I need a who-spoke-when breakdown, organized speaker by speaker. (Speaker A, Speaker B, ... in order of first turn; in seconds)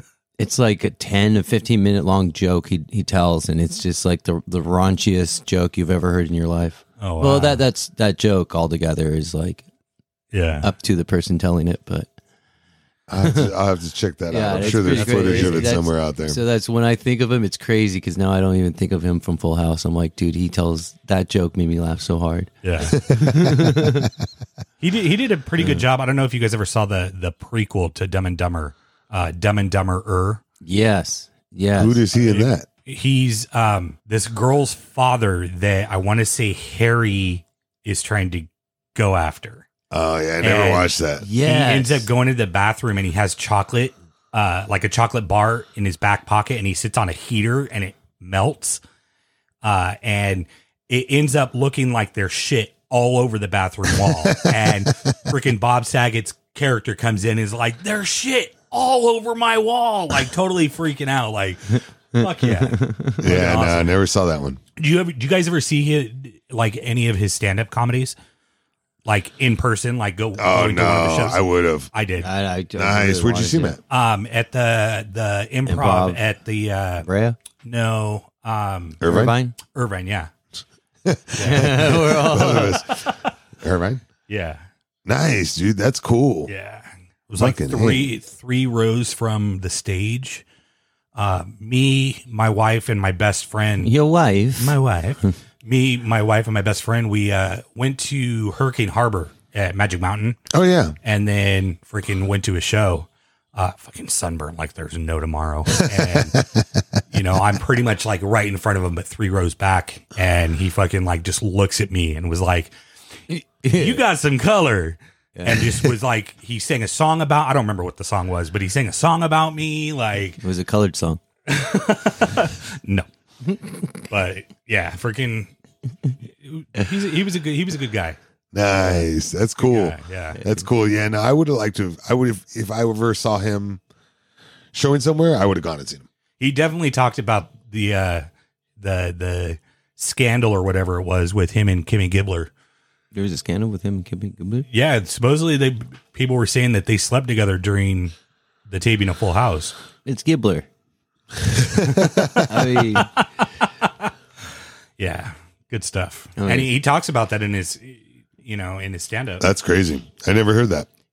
Speaker A: 0.4-9.6, 10.6-12.1, 13.2-13.5, 14.3-24.1, 25.6-25.8, 30.6-32.0, 41.2-42.1, 62.2-63.3, 72.2-73.8, 75.7-76.2, 77.0-77.4, 79.0-79.6, 81.4-82.8, 93.8-95.3, 113.3-114.0, 115.3-115.9, 120.4-121.2, 123.5-123.9, 130.4-130.6, 143.1-144.7, 150.0-150.7, 152.3-153.2, 156.4-156.7
Speaker B: 7.0-7.6, 10.3-10.7, 14.6-15.7, 22.6-23.0, 24.8-30.4, 32.1-39.6, 40.4-48.8, 49.6-64.0, 64.8-68.1, 69.0-72.3, 73.9-77.1, 77.6-79.0, 79.7-80.3, 81.3-83.3, 84.3-84.6, 86.5-90.4, 91.1-93.9, 94.6-100.4, 101.0-106.4, 107.1-112.7, 113.6-120.4, 121.5-123.1, 124.1-125.5, 126.2-128.2, 129.6-130.4, 136.4-138.2, 138.8-142.5, 144.7-148.1, 148.7-149.7, 151.7-153.3, 153.8-154.1, 155.0-159.4
Speaker C: 13.1-16.4, 22.9-24.1, 31.8-32.7, 39.9-41.2, 54.3-54.9, 63.2-64.6, 70.4-71.9, 72.7-73.8, 79.0-79.4, 81.0-84.0, 85.0-86.5, 87.3-88.2, 100.5-101.0, 128.5-133.8, 134.7-136.0, 151.7-152.2, 159.4-160.9